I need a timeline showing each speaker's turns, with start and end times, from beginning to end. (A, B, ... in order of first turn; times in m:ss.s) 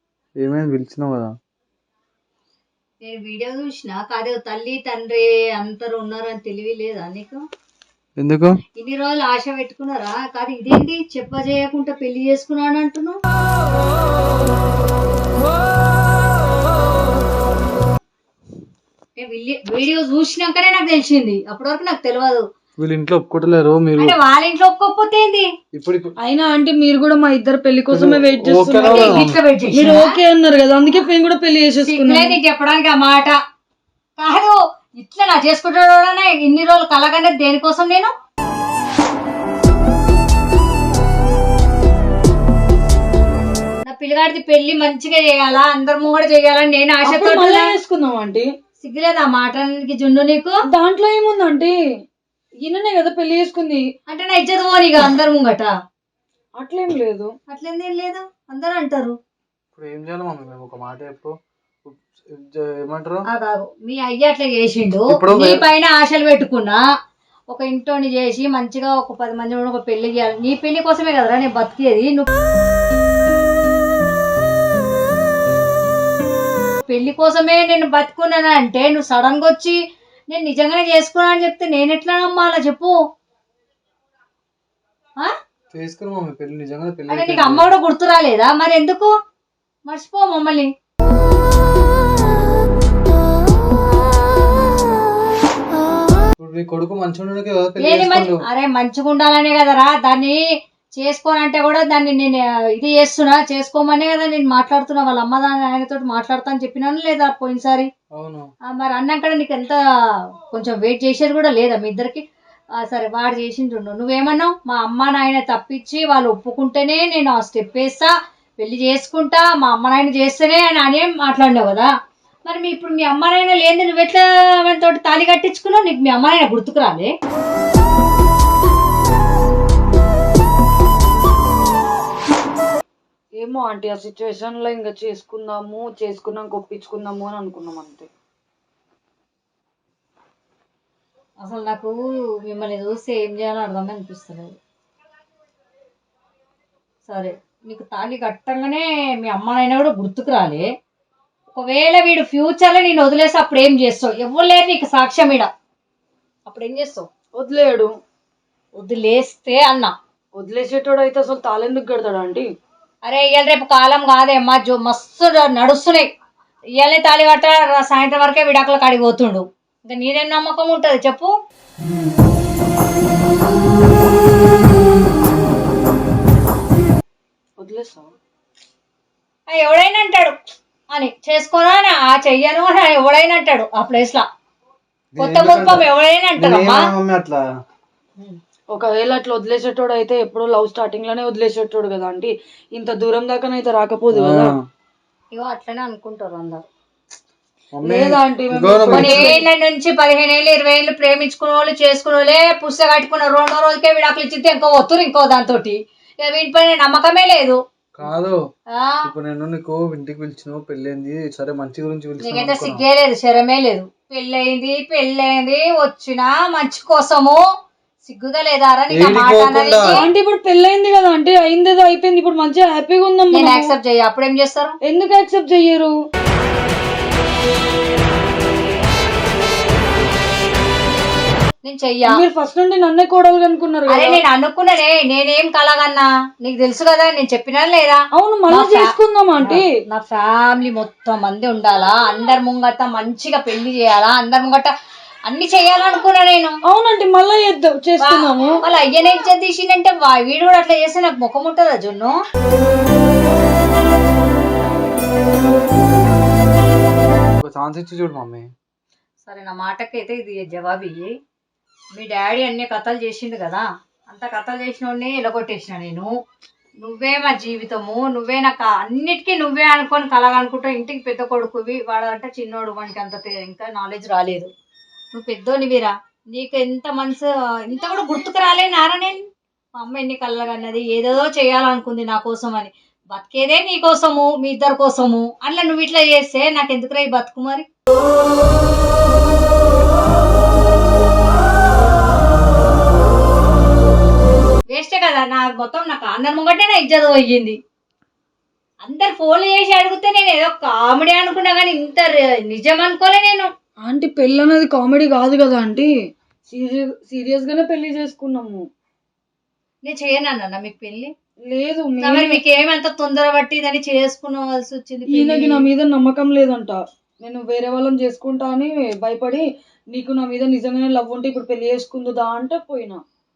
0:00.4-0:01.3 A
0:03.0-0:07.4 B
0:08.2-0:08.6 A
0:08.8-0:13.2 B
0:19.2-0:22.4 B
0:22.8-0:24.2 A
0:24.0-0:25.5 B
0:25.7-0:26.1 A
0:26.2-0:32.3 C
0:27.9-0:29.4 A
0:28.8-0:30.1 B
0:31.8-0:33.4 B
0:34.2-0:38.1 B
0:43.8-0:47.7 B
0:47.0-0:48.5 C
0:48.8-0:50.6 B
0:50.7-0:51.7 C
0:52.6-0:53.8 C
0:54.1-0:55.7 B
0:56.6-0:57.3 C
0:57.5-0:59.1 B
0:59.8-1:01.3 A
1:01.8-1:03.2 A
1:03.3-1:06.8 B
1:05.1-1:05.6 A
1:07.5-1:12.2 B
1:16.9-1:19.8 B
1:20.3-1:22.9 B
1:25.7-1:27.7 A
1:27.1-1:29.1 B
1:29.9-1:30.7 B
1:36.4-1:38.4 A
1:37.8-1:40.4 B
1:41.0-1:47.9 B
1:48.1-1:48.5 A
1:48.7-1:49.8 B
1:50.5-1:52.2 B
1:52.8-2:01.9 B
2:02.4-2:07.1 B
2:13.4-2:18.1 C
2:21.4-2:24.6 B
2:27.1-2:30.6 B
2:31.5-2:35.5 B
2:36.5-2:37.1 B
2:37.4-2:37.9 C
2:38.8-2:39.9 B
2:40.4-2:42.5 C
2:43.0-2:46.1 B
2:46.8-2:51.3 B
2:57.6-2:58.1 C
2:59.5-3:00.3 B
3:00.9-3:04.2 B
3:05.1-3:07.4 A
3:05.2-3:06.8 B
3:08.7-3:14.5 C
3:14.1-3:14.6 A
3:15.3-3:16.6 B
3:17.7-3:19.3 A
3:17.8-3:19.4 C
3:18.9-3:27.6 B
3:28.0-3:28.4 A
3:28.7-3:29.0 B
3:29.0-3:32.8 A
3:32.2-3:37.4 B
3:38.0-3:40.0 B
3:38.9-3:40.0 A
3:39.8-3:43.6 C
3:43.3-3:44.7 B
3:44.8-3:45.9 C
3:51.6-3:52.2 B
3:52.1-3:54.2 C
3:53.9-3:58.9 B
3:58.2-3:59.6 C
3:59.4-4:04.7 B
4:05.3-4:06.5 B
4:06.7-4:08.5 C
4:08.0-4:12.1 B
4:17.4-4:18.5 A
4:19.2-4:21.1 B
4:21.9-4:26.1 B
4:26.8-4:34.5 B
4:35.1-4:39.2 B
4:39.8-4:47.6 B
4:54.7-4:57.6 B
4:58.8-5:03.5 B
5:03.8-5:05.9 C
5:06.5-5:08.6 C
5:09.8-5:11.1 B
5:11.5-5:12.4 C
5:12.0-5:15.6 B
5:15.1-5:23.0 C